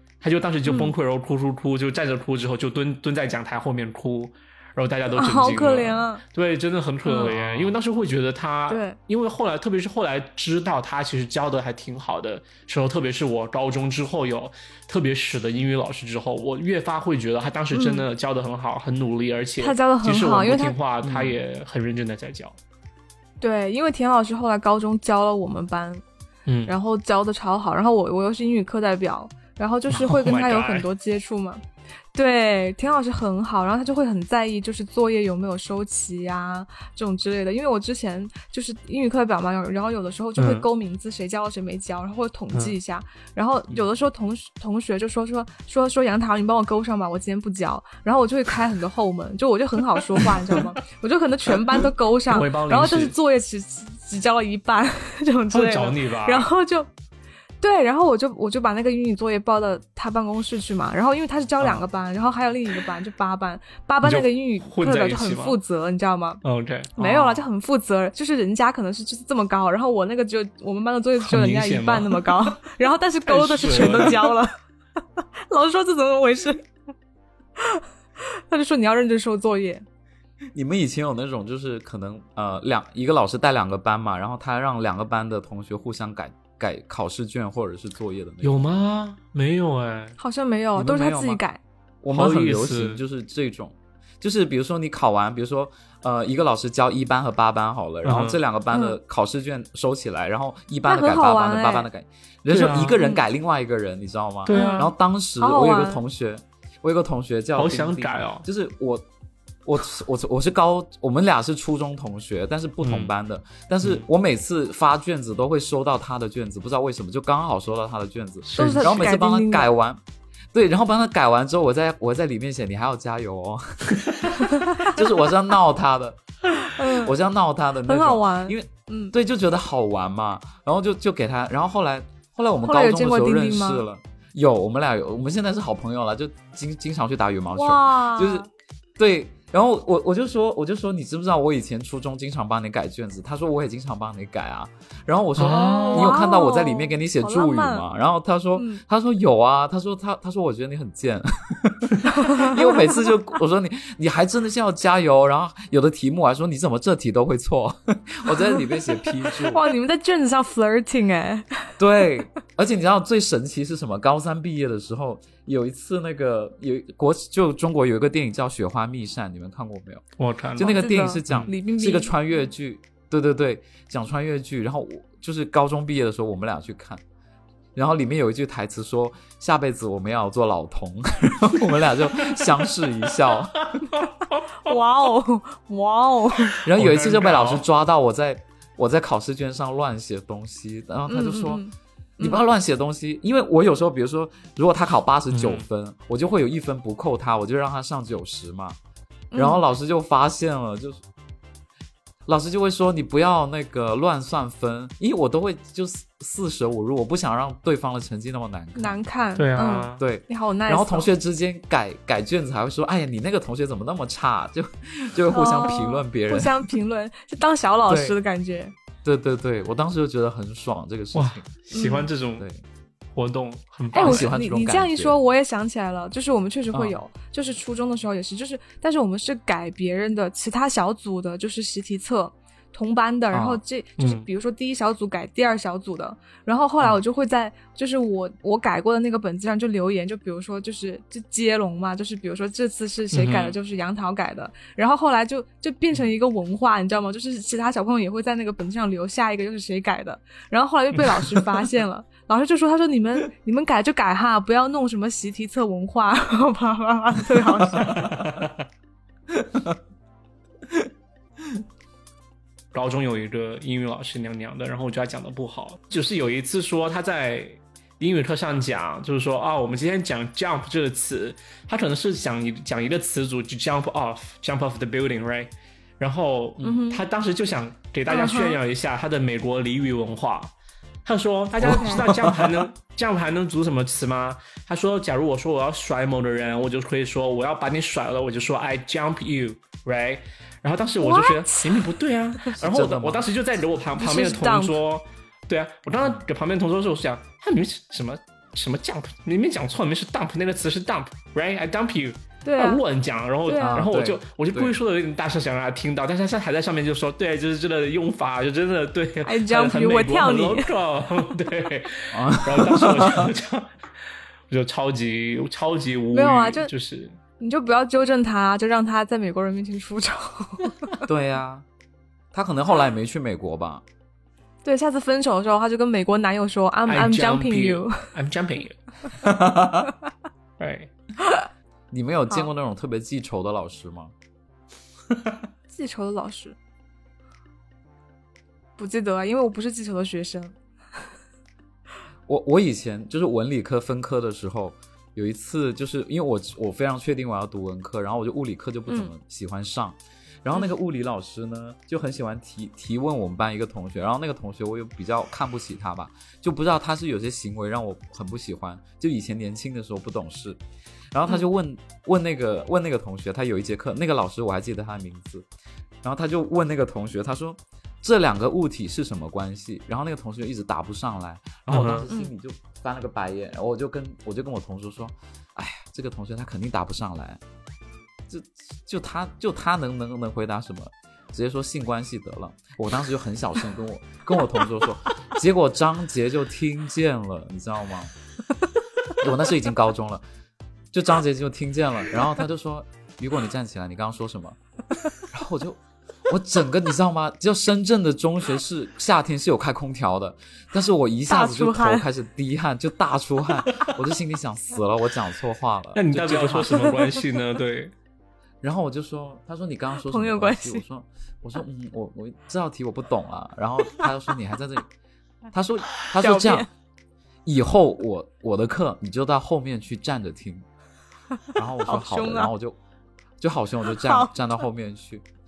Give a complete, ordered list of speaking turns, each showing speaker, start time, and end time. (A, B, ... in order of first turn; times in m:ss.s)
0:00.2-0:22.6 A
0:00.6-0:00.9 B
0:05.1-0:06.2 B
0:07.0-0:07.3 B
0:07.2-0:07.8 C
0:08.7-0:09.0 B
0:17.7-0:18.0 B
0:19.6-0:20.8 B
0:21.0-0:21.4 C
0:23.4-0:26.0 B
0:26.4-0:26.7 A
0:26.6-0:31.6 B
0:29.9-0:30.9 A
0:32.1-0:56.9 B
0:40.4-0:40.6 A
0:50.2-0:50.6 A
0:51.7-0:53.1 A
0:55.5-0:56.5 A
0:57.6-1:06.4 B
1:04.0-1:05.6 A
1:06.4-1:07.4 A
1:07.0-1:14.6 B
1:11.2-1:12.5 A
1:13.3-1:14.3 A
1:15.2-1:16.6 B
1:17.6-1:19.8 B
1:20.5-1:28.7 C
1:28.4-1:30.2 A
1:30.2-1:31.6 B
1:30.7-1:31.4 C
1:32.0-1:49.0 C
1:32.1-1:33.0 A
1:38.0-1:38.4 A
1:38.7-1:39.0 B
1:40.8-1:41.9 B
1:42.5-1:43.0 A
1:42.9-1:43.2 B
1:44.5-1:44.9 A
1:44.5-1:46.0 B
1:47.6-1:48.4 A
1:49.6-2:00.0 C
1:52.8-1:53.1 A
1:58.4-1:59.0 A
1:58.6-1:59.7 B
2:00.5-2:06.2 C
2:04.3-2:04.9 B
2:06.6-2:07.1 B
2:06.8-2:18.4 C
2:07.8-2:09.1 B
2:12.6-2:13.8 B
2:17.5-2:18.5 B
2:19.0-2:39.6 C
2:25.4-2:26.2 A
2:25.4-2:27.8 B
2:28.6-2:28.8 B
2:32.1-2:32.6 B
2:39.4-2:41.7 B
2:41.8-2:50.0 C
2:50.2-2:51.5 A
2:50.6-2:57.0 C
2:50.7-2:52.1 B
2:57.7-3:03.8 C
3:03.6-3:04.1 A
3:04.6-3:06.6 B
3:06.5-3:07.6 A
3:06.6-3:11.6 C
3:11.1-3:12.4 B
3:12.2-3:18.8 C
3:15.3-3:15.6 A
3:19.3-3:19.6 B
3:19.4-3:21.0 C
3:22.2-3:29.0 C
3:28.8-3:31.1 B
3:29.4-3:30.0 A
3:30.0-3:36.6 C
3:35.3-3:38.7 B
3:37.9-3:38.2 C
3:39.0-3:41.5 C
3:41.1-3:42.4 A
3:41.7-3:42.1 B
3:42.4-3:42.6 C
3:43.1-3:44.3 A
3:43.9-4:18.1 B
3:44.0-3:45.2 C
3:53.3-3:53.6 C
3:54.0-3:54.3 A
4:03.1-4:03.6 A
4:17.8-4:18.6 A
4:19.3-4:19.8 C
4:22.7-4:40.5 A
4:36.6-4:37.0 B
4:38.1-4:38.6 B
4:41.0-5:13.7 A
4:41.6-4:42.1 B
4:41.6-4:42.7 C
4:51.0-4:52.4 B
4:52.5-4:53.3 C
4:54.0-4:54.8 B
5:02.4-5:02.8 B
5:03.4-5:03.8 B
5:03.6-5:04.8 C
5:09.2-5:10.7 B
5:12.1-5:13.3 C
5:14.5-5:17.2 A
5:16.1-5:16.7 B
5:17.4-5:20.9 B
5:21.0-5:21.6 C
5:22.3-5:23.8 C
5:24.6-5:28.1 B
5:26.9-5:28.8 A
5:29.2-5:29.9 C
5:30.6-5:30.9 A
5:31.9-5:34.1 C
5:35.7-5:36.6 B
5:38.8-5:40.6 B
5:42.3-6:00.6 C
6:01.1-6:05.5 C
6:06.0-6:17.4 C
6:11.7-6:12.1 A
6:18.3-6:28.1 C
6:29.2-6:30.2 C
6:30.9-6:34.6 C
6:35.2-6:46.9 C
6:41.3-6:42.0 B
6:45.9-6:47.9 A
6:48.6-6:54.9 C
6:50.0-6:50.8 B
6:55.5-6:56.7 C
6:56.2-6:56.7 B
6:57.4-7:00.6 C
7:01.5-7:02.8 C
7:01.8-7:02.5 B
7:03.4-7:05.2 C
7:04.0-7:04.3 B